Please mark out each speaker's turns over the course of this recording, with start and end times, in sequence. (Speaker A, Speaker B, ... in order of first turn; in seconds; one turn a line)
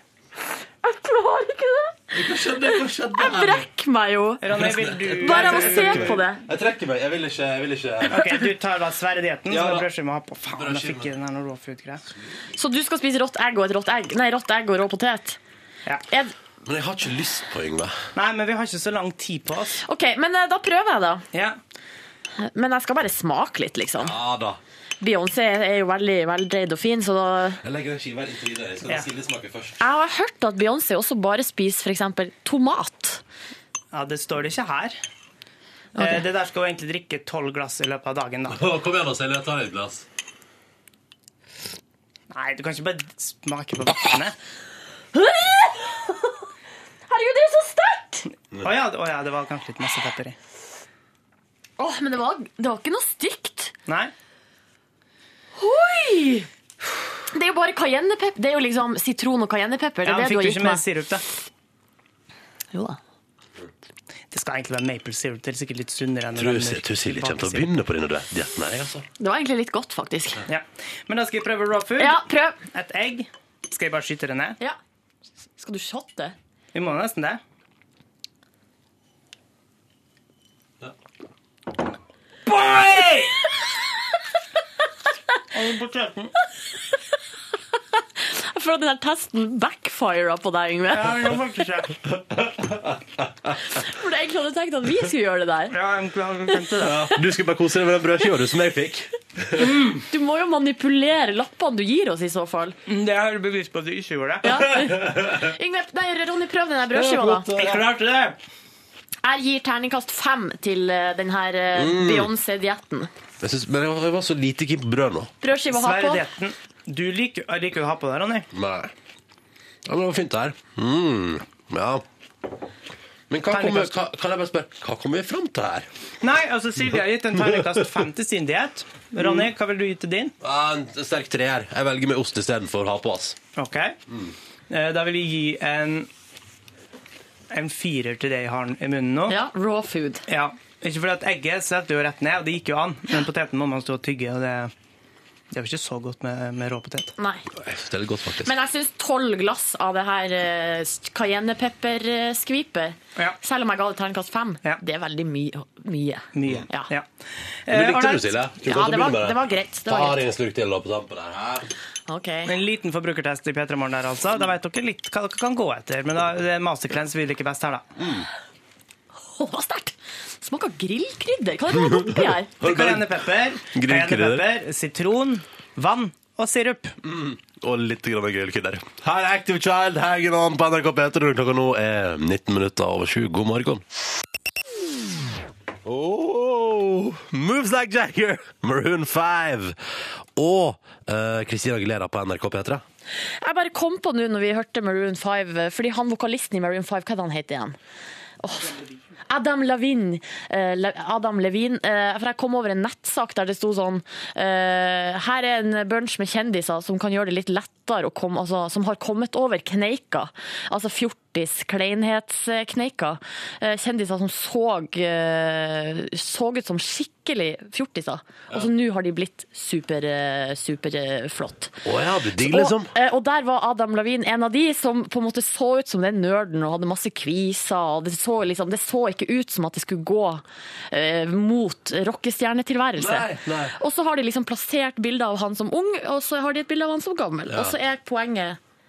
Speaker A: 0.8-2.1
Speaker B: 2.1-3.7
Speaker A: 3.1-4.4
Speaker C: 4.4-6.2
Speaker B: 4.5-8.2
Speaker A: 5.2-6.4
Speaker C: 8.1-12.0
Speaker B: 9.5-9.9
Speaker B: 10.5-11.1
Speaker A: 12.6-15.4
Speaker B: 16.6-18.0
Speaker C: 18.1-19.8
Speaker A: 19.8-21.2
Speaker C: 21.3-21.6
Speaker A: 22.4-24.1
Speaker B: 24.0-24.6
Speaker A: 25.0-27.6
Speaker B: 27.6-29.8
Speaker A: 29.8-33.2
Speaker C: 33.9-35.0
Speaker A: 36.0-36.2
Speaker C: 36.0-38.6
Speaker B: 38.5-40.1
Speaker C: 42.3-44.4
Speaker A: 45.1-46.3
Speaker A: 47.1-48.2
Speaker C: 48.6-50.4
Speaker A: 51.8-53.7
Speaker C: 53.9-54.1
Speaker A: 55.6-56.5
Speaker A: 57.3-60.8
Speaker C: 60.0-61.2
Speaker A: 62.7-63.0
Speaker C: 64.3-67.7
Speaker B: 66.4-69.1
Speaker A: 69.2-70.4
Speaker C: 70.5-74.6
Speaker A: 72.0-72.6
Speaker A: 75.6-76.3
Speaker C: 76.7-77.4
Speaker C: 82.5-83.4
Speaker C: 85.5-86.3
Speaker A: 88.2-91.3
Speaker C: 90.9-92.0
Speaker B: 92.3-93.3
Speaker A: 93.8-95.8
Speaker C: 95.7-97.0
Speaker B: 96.8-99.7
Speaker C: 99.6-100.0
Speaker A: 100.1-102.8
Speaker C: 102.9-104.7
Speaker A: 104.4-107.5
Speaker B: 106.9-107.9
Speaker C: 107.6-108.4
Speaker A: 109.2-113.1
Speaker B: 111.8-112.3
Speaker B: 113.4-115.3
Speaker A: 115.4-116.2
Speaker C: 115.7-118.5
Speaker B: 118.5-118.9
Speaker B: 119.9-122.0
Speaker B: 123.3-125.9
Speaker C: 123.5-124.0
Speaker C: 126.2-130.3
Speaker B: 130.4-133.4
Speaker C: 133.6-134.0
Speaker B: 134.1-134.3
Speaker C: 134.7-136.1
Speaker C: 137.5-139.3
Speaker A: 139.3-140.2
Speaker C: 140.3-144.7
Speaker C: 145.5-147.1
Speaker A: 147.2-147.5
Speaker B: 147.6-148.5
Speaker A: 148.4-156.9
Speaker C: 156.3-157.1
Speaker C: 157.7-158.4
Speaker B: 157.7-161.7
Speaker A: 158.6-160.2
Speaker A: 162.1-162.5
Speaker C: 162.5-167.8
Speaker B: 168.0-168.3
Speaker A: 169.3-172.5
Speaker B: 171.7-173.1
Speaker C: 172.6-176.9
Speaker B: 173.7-174.5
Speaker B: 177.0-183.8
Speaker B: 185.8-189.8
Speaker B: 190.4-192.8
Speaker A: 193.4-197.8
Speaker A: 198.4-198.7
Speaker A: 199.3-221.8
Speaker B: 221.8-222.9
Speaker A: 222.4-238.6
Speaker B: 233.0-233.8
Speaker B: 237.5-237.8